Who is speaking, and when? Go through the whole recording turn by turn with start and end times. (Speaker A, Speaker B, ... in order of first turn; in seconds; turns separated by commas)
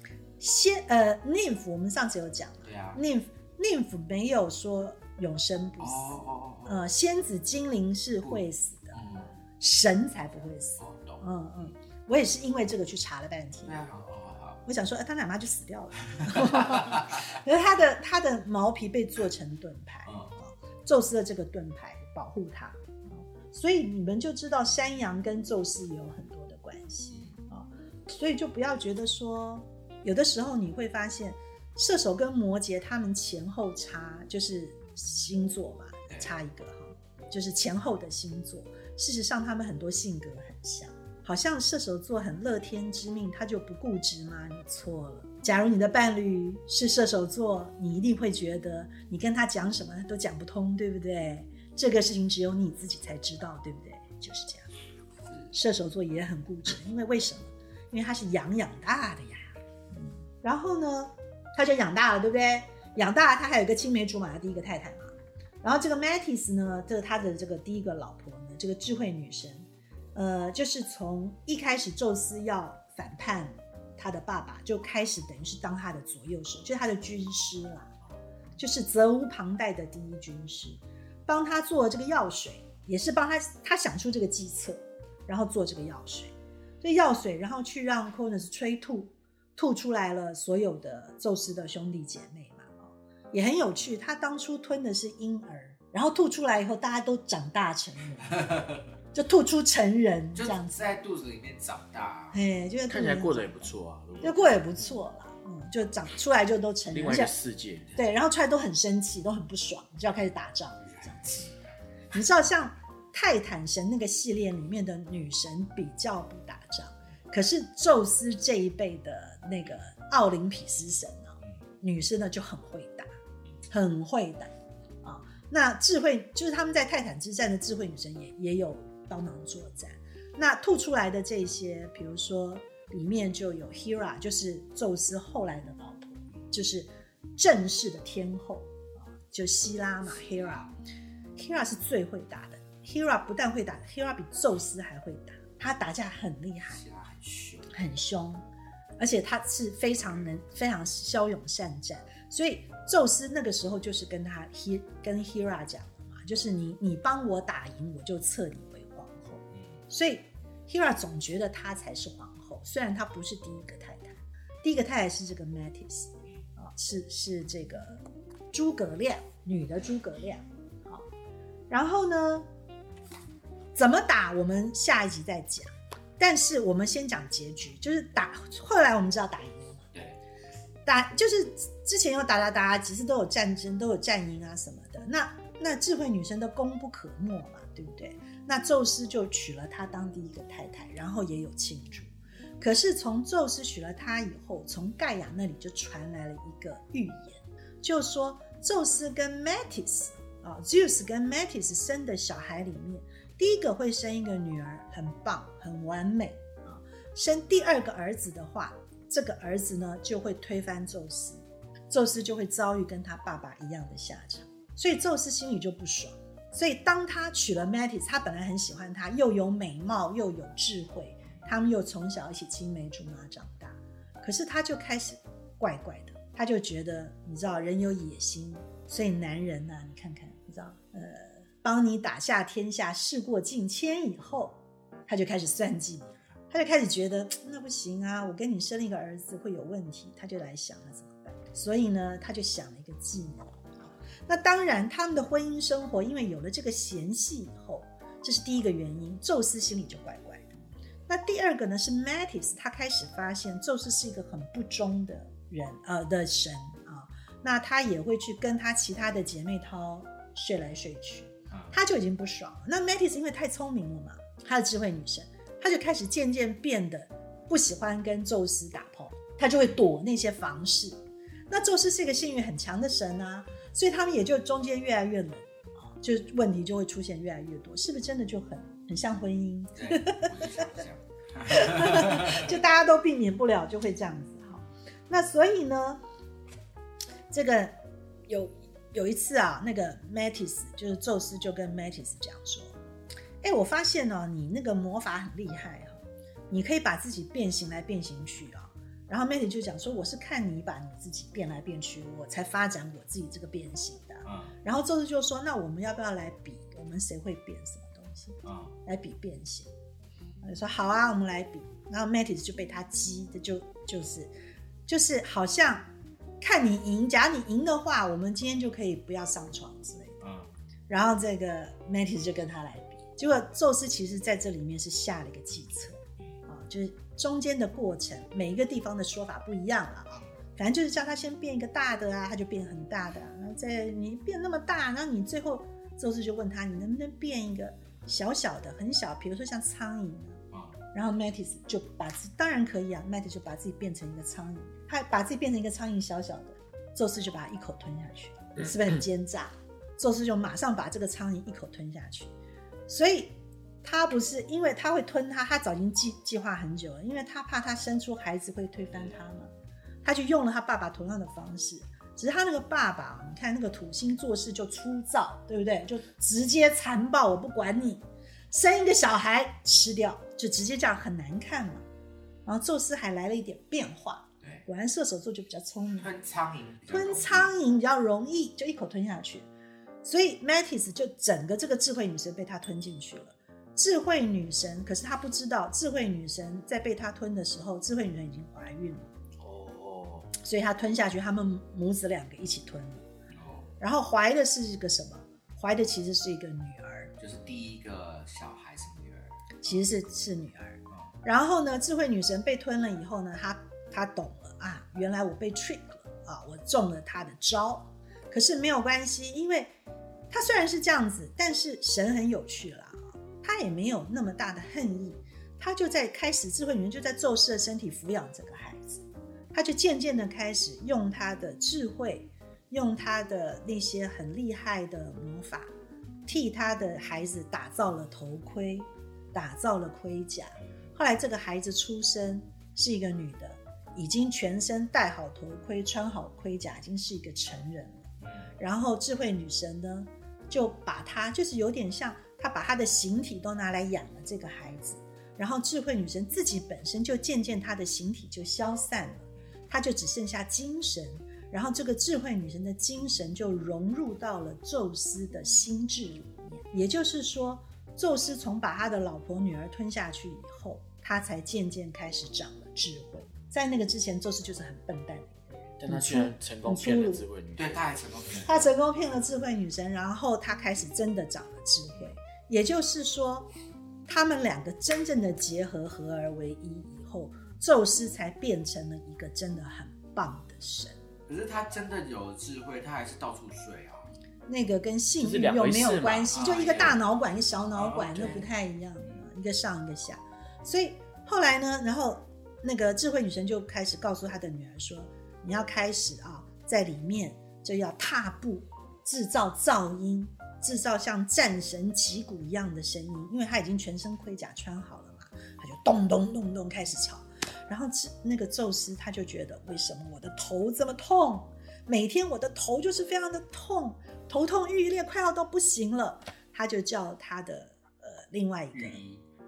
Speaker A: 0.4-9.0, Speaker B: 2.6-3.0, Speaker B: 5.8-6.8, Speaker B: 8.2-9.4, Speaker A: 9.6-13.8, Speaker B: 10.8-11.7, Speaker B: 13.7-14.6, Speaker A: 14.6-54.7, Speaker B: 16.2-17.2, Speaker B: 20.1-20.3, Speaker B: 27.1-27.4, Speaker A: 55.5-77.9, Speaker A: 78.6-98.6, Speaker B: 98.3-98.8, Speaker A: 99.1-100.9, Speaker B: 100.3-102.4, Speaker A: 102.3-107.3, Speaker C: 102.9-104.7, Speaker C: 106.9-107.9, Speaker A: 107.9-111.4, Speaker B: 110.8-111.8, Speaker A: 112.1-123.1, Speaker A: 123.7-124.5, Speaker A: 125.0-140.7, Speaker B: 140.4-140.7, Speaker A: 141.3-146.8, Speaker B: 146.7-147.8, Speaker A: 147.7-148.4, Speaker A: 149.0-171.1, Speaker A: 171.7-172.4, Speaker A: 173.7-179.8, Speaker B: 179.9-180.2, Speaker A: 180.8-243.6, Speaker A: 244.3-250.5, Speaker A: 251.1-271.0, Speaker B: 261.5-261.7, Speaker A: 271.5-280.3, Speaker B: 279.8-282.6, Speaker A: 281.4-286.0, Speaker A: 287.3-287.7, Speaker A: 288.3-292.8, Speaker A: 293.4-309.7, Speaker B: 304.2-304.5, Speaker B: 308.4-308.7, Speaker A: 310.4-314.3, Speaker A: 314.9-315.9, Speaker A: 316.4-320.2, Speaker B: 320.2-320.5, Speaker A: 320.9-340.4, Speaker B: 340.5-340.8, Speaker A: 340.9-352.3, Speaker A: 352.9-353.3, Speaker A: 353.8-359.5, Speaker A: 360.0-371.8, Speaker A: 372.4-376.1, Speaker B: 376.0-377.5, Speaker A: 376.9-379.5, Speaker A: 380.0-389.1, Speaker C: 389.4-390.3, Speaker A: 390.4-393.0, Speaker B: 393.3-393.7, Speaker A: 393.8-397.1, Speaker B: 397.2-399.8, Speaker A: 399.6-409.7, Speaker A: 410.3-425.7, Speaker A: 426.2-467.2, Speaker B: 438.2-438.5, Speaker C: 465.8-467.8, Speaker B: 467.6-468.7, Speaker A: 468.4-473.5, Speaker A: 474.1-480.9, Speaker B: 481.3-484.1, Speaker A: 484.5-519.0, Speaker C: 485.2-487.0, Speaker B: 486.3-486.9, Speaker B: 487.7-488.4, Speaker B: 518.7-519.2